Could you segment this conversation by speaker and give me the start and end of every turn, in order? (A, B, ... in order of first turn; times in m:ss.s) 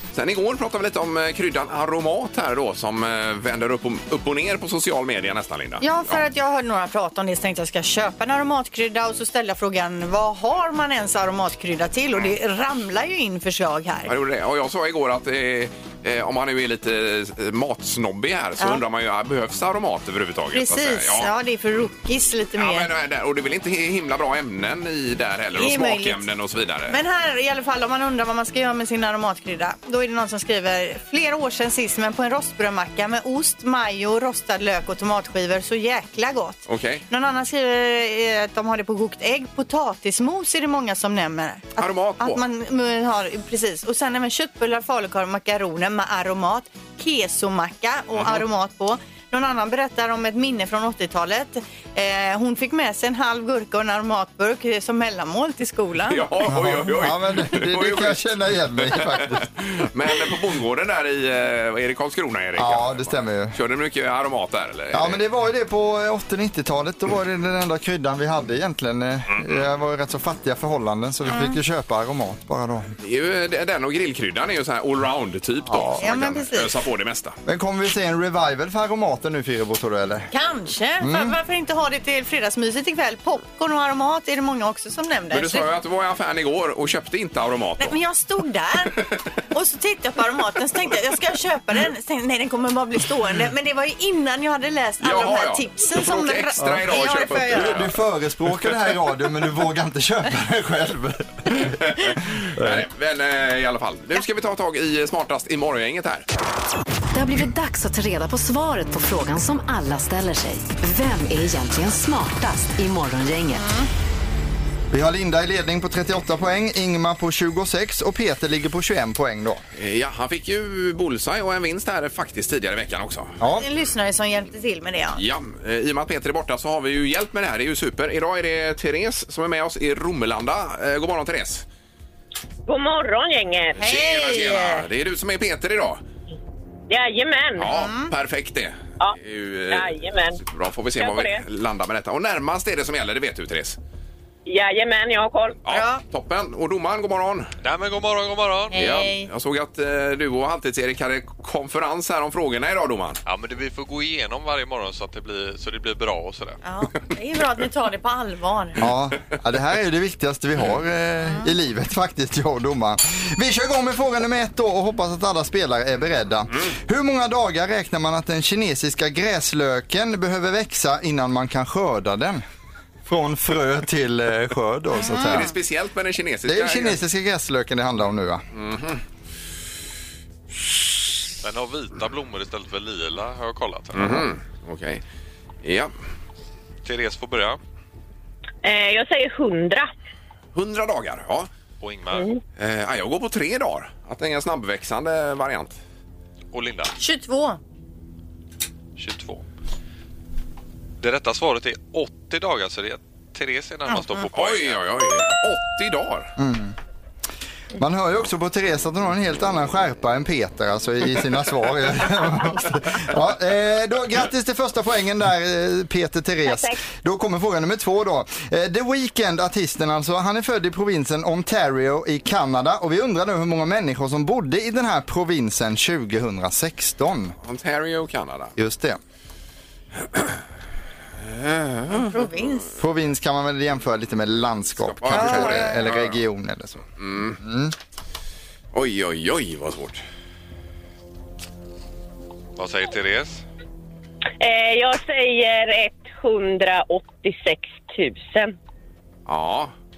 0:00.1-0:06.2 A
0:05.8-0:14.1 B
0:14.1-0:21.3 A
0:20.5-0:22.9 B
0:22.6-0:27.0 A
0:25.6-0:26.2 B
0:26.9-0:56.2 B
0:36.7-0:37.0 A
0:41.8-0:42.4 A
0:56.1-1:05.2 A
0:56.5-0:59.4 C
1:02.6-1:03.6 C
1:04.9-1:12.9 C
1:09.3-1:09.6 A
1:11.3-1:11.6 B
1:13.0-1:17.4 A
1:16.0-1:16.7 B
1:17.5-1:20.3 C
1:20.3-1:25.7 B
1:21.0-1:21.4 C
1:25.3-1:28.0 A
1:27.8-1:37.8 B
1:35.0-1:38.0 A
1:37.5-1:41.7 C
1:41.6-1:46.2 A
1:42.4-1:42.8 C
1:47.1-1:53.6 D
1:53.5-1:53.9 B
1:54.9-1:59.6 C
1:59.8-2:03.3 A
2:03.4-2:03.7 C
2:03.6-2:05.2 B
2:05.2-2:11.6 A
2:12.7-2:13.8 E
2:13.8-2:16.0 A
2:13.8-2:14.8 B
2:16.9-2:17.7 E
2:17.6-2:23.8 A
2:17.6-2:18.1 B
2:19.7-2:20.4 E
2:21.0-2:21.4 E
2:24.5-2:25.6 E
2:25.6-2:27.5 A
2:25.7-2:26.0 B
2:27.6-2:28.8 F
2:28.7-2:29.3 B
2:28.8-2:33.2 A
2:33.2-2:36.6 F
2:36.6-2:38.8 B
2:38.8-2:52.4 C
2:41.2-2:41.5 B
2:53.0-2:55.5 C
2:55.0-2:55.4 B
2:55.2-2:57.0 A
2:56.5-2:58.4 C
2:58.5-2:59.0 A
3:01.4-3:04.3 F
3:03.9-3:05.0 A
3:05.6-3:05.9 A
3:06.8-3:07.6 F
3:08.6-3:09.9 E
3:10.6-3:11.5 A
3:11.8-3:12.3 F
3:12.6-3:15.8 A
3:16.5-3:16.9 F
3:17.0-3:17.6 B
3:19.0-3:19.4 F
3:21.0-3:24.8 F
3:24.3-3:26.3 A
3:26.4-3:26.8 C
3:27.8-3:47.4 C
3:36.4-3:36.8 E
3:47.4-3:48.5 A
3:48.6-3:49.0 C
3:50.1-3:50.4 A
3:51.2-3:52.4 A
3:51.9-3:52.8 B
3:52.8-3:56.8 C
3:54.8-3:56.2 A
3:55.1-3:55.8 B
3:57.0-3:57.4 A
3:57.4-3:57.7 C
3:58.7-4:00.0 A
4:02.6-4:03.4 F
4:04.4-4:08.6 E
4:09.3-4:09.7 A